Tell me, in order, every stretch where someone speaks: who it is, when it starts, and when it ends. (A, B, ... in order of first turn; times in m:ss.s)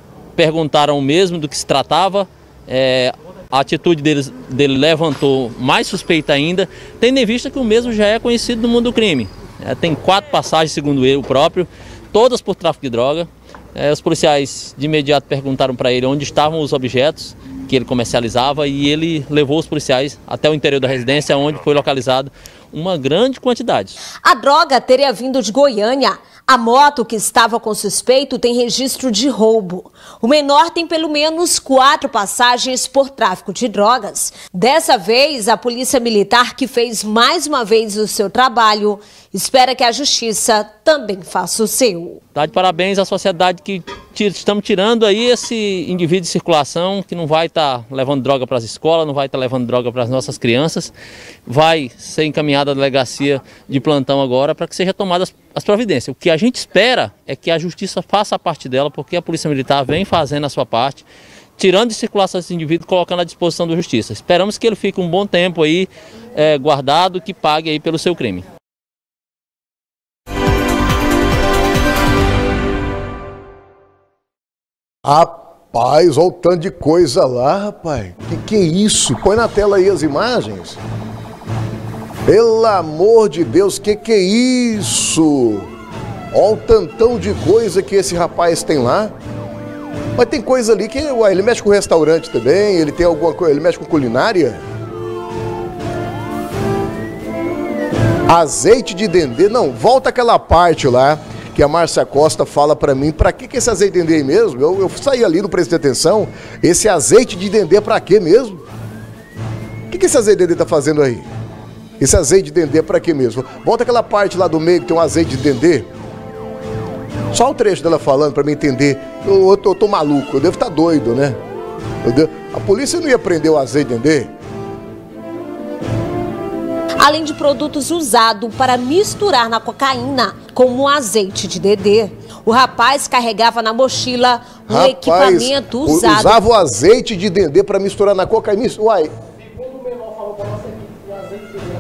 0:00.4-0:24.0 A
0:24.2-0:42.2 B
0:42.3-0:50.9 A
0:51.5-1:01.1 A
1:01.6-1:08.4 A
1:15.1-1:20.8 C
1:22.2-1:25.7 C
1:26.3-1:29.1 C
1:30.2-1:34.6 C
1:38.3-1:48.6 C
1:49.9-1:51.3 C
1:52.0-1:55.9 C
1:57.3-2:01.4 C
2:02.0-2:04.3 C
2:07.0-2:16.4 B
2:14.7-2:19.1 C